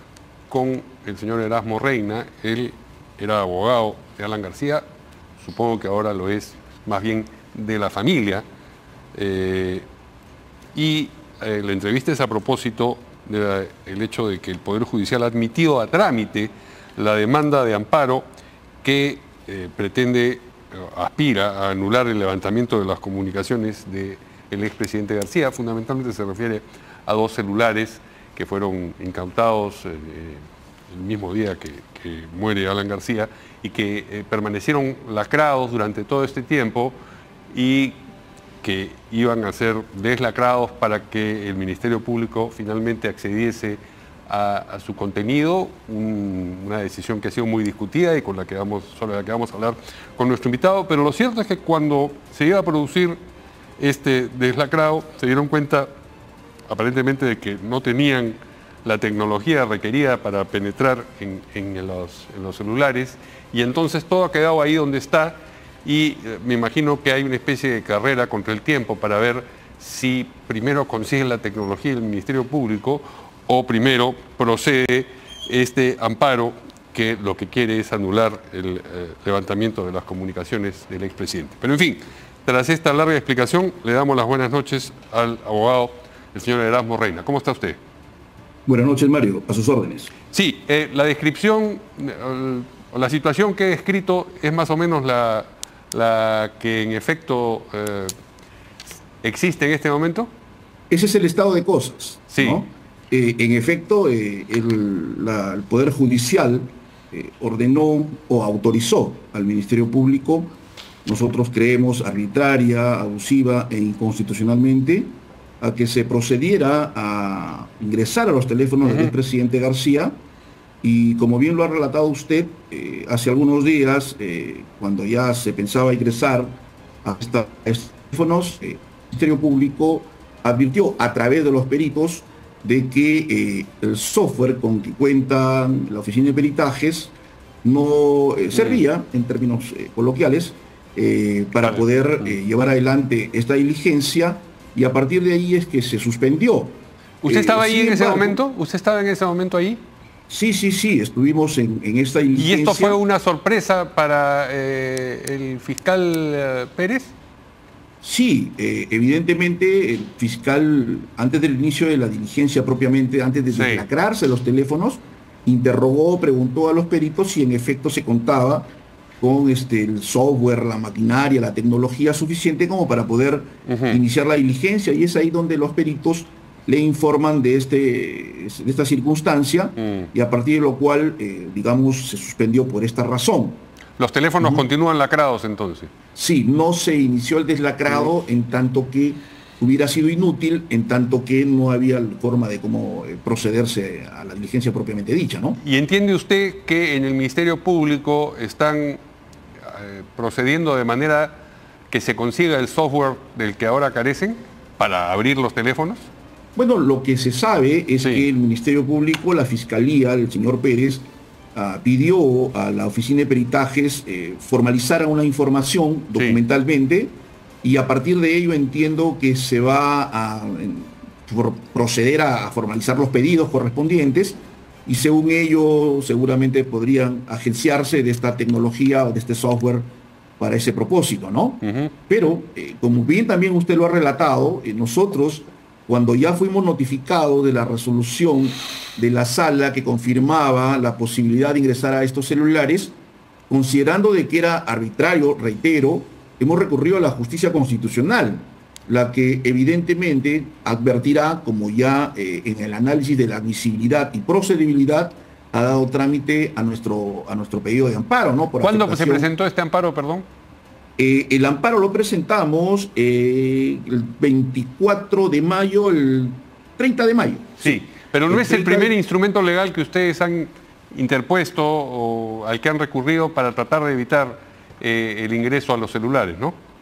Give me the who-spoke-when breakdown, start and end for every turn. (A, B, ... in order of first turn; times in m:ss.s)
0:00.5-0:04.9 A
0:05.4-0:08.4 A
0:09.1-0:09.9 A
0:10.8-0:18.2 A
0:18.8-0:37.0 A
0:37.5-0:38.0 A
0:38.6-0:53.2 A
0:53.8-0:55.9 A
0:56.7-1:27.8 A
1:28.7-1:30.1 B
1:30.3-1:38.1 A
1:39.2-1:40.3 A
1:40.9-2:00.2 B
1:42.3-1:42.6 A
1:58.8-1:59.1 A
2:00.8-2:28.4 B
2:18.5-2:18.8 A
2:21.6-2:22.4 A
2:27.2-2:29.8 A
2:30.3-2:33.0 B
2:32.4-2:37.1 A
2:38.0-3:03.6 B
2:43.5-2:43.9 A
2:53.7-2:54.0 A
2:59.8-3:00.1 A
3:04.0-3:05.9 A
3:04.4-3:04.7 B
3:06.2-3:15.6 B
3:07.9-3:08.1 A
3:15.6-3:19.0 A
3:19.7-3:26.1 A
3:26.6-3:49.9 B
3:28.0-3:28.3 A
3:36.2-3:36.4 A
3:50.4-4:03.0 B
3:51.6-3:51.9 A
4:03.5-4:19.3 B
4:18.6-4:20.3 A
4:21.0-4:28.9 B
4:27.6-4:36.6 A